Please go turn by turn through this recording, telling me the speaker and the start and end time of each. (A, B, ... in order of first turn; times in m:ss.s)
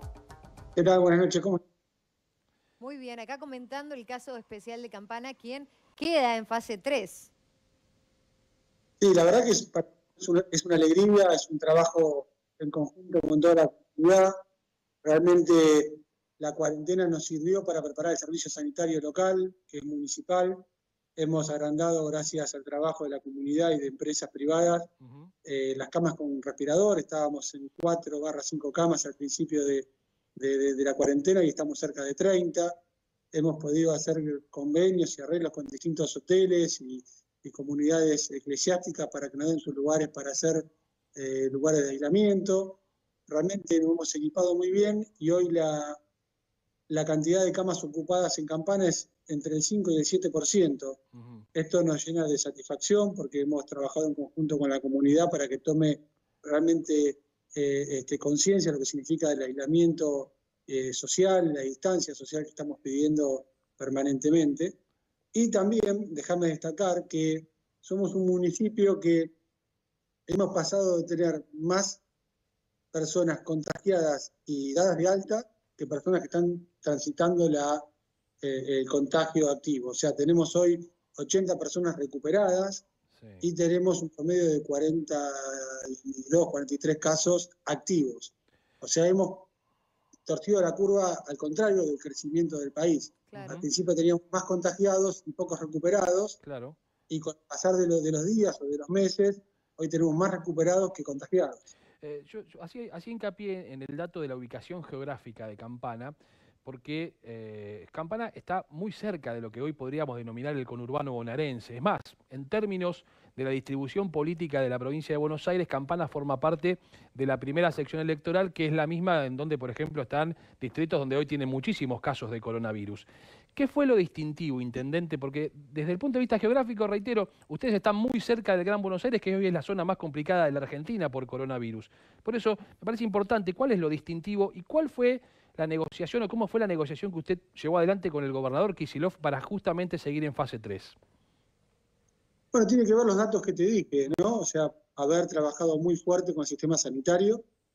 0:00.8-0:01.6 A
0:02.8-0:07.3 B
0:09.0-0:14.3 A
0:15.0-0:20.6 A
0:21.2-0:24.9 A
0:25.0-0:25.3 C
0:25.4-0:32.8 A
0:33.3-0:46.0 A
0:46.9-0:51.0 A
0:51.1-0:51.4 C
0:51.5-1:04.8 A
1:05.3-1:09.3 A
1:10.3-1:12.0 A
1:12.9-1:17.8 A
1:18.4-1:22.8 A
1:23.1-1:23.4 C
1:23.4-1:29.5 A
1:30.2-1:36.4 A
1:33.3-1:33.6 B
1:33.4-1:33.6 C
1:36.4-1:36.8 C
1:37.1-1:41.6 A
1:42.0-2:21.0 C
2:22.5-2:27.4 A